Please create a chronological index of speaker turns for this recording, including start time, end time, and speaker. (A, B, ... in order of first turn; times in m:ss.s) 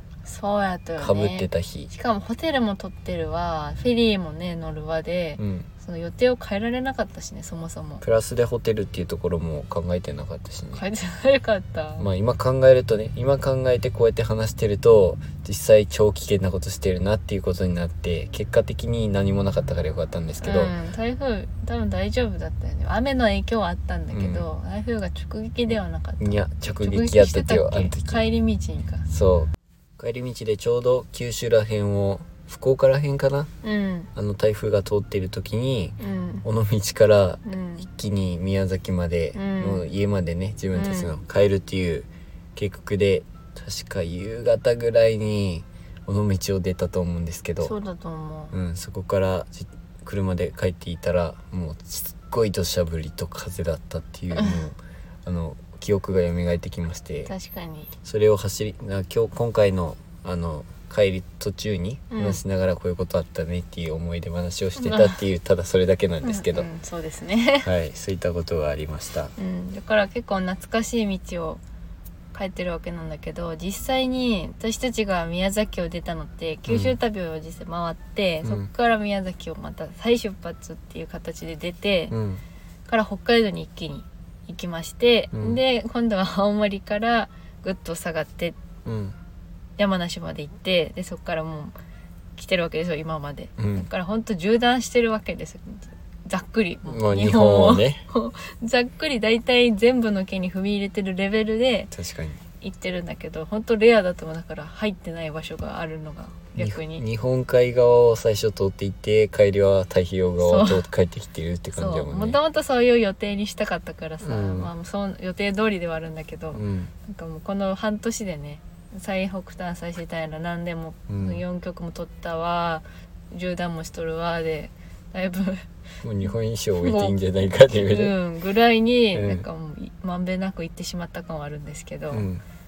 0:00.2-0:08.0 A
0:01.0-0:01.9 B
0:05.4-0:05.7 B
0:08.0-0:10.8 B
0:10.7-0:12.1 A
0:12.0-0:20.7 B
0:20.4-0:29.0 A
0:24.1-0:24.5 B
0:25.7-0:28.2 B
0:29.1-0:33.5 B
0:33.6-0:34.1 A
0:34.1-0:47.8 B
0:36.0-0:36.4 A
0:37.4-0:37.9 A
0:39.3-0:39.8 A
0:40.7-0:41.1 A
0:47.6-0:48.5 A
0:48.5-0:57.3 B
0:54.3-0:54.6 A
0:57.3-0:57.9 A
0:58.0-1:06.7 B
1:02.1-1:02.4 A
1:04.8-1:05.2 A
1:06.2-1:07.7 A
1:07.6-1:09.3 B
1:09.4-1:11.6 A
1:12.3-1:22.2 A
1:16.7-1:16.9 B
1:18.4-1:18.7 B
1:22.1-1:22.4 B
1:22.9-1:28.6 A
1:25.3-1:25.6 B
1:28.8-1:29.2 B
1:29.8-1:31.7 A
1:32.4-1:41.9 A
1:33.6-1:33.9 B
1:36.9-1:38.0 B
1:41.9-1:42.4 B
1:42.6-1:47.0 A
1:46.6-1:52.4 B
1:50.4-1:50.8 A
1:51.7-2:05.6 A
1:54.2-1:54.7 B
1:56.5-1:56.9 B
2:01.1-2:01.4 B
2:06.0-2:08.1 B
2:06.2-2:07.2 A
2:07.7-2:12.3 A
2:09.1-2:09.4 B
2:12.1-2:12.4 B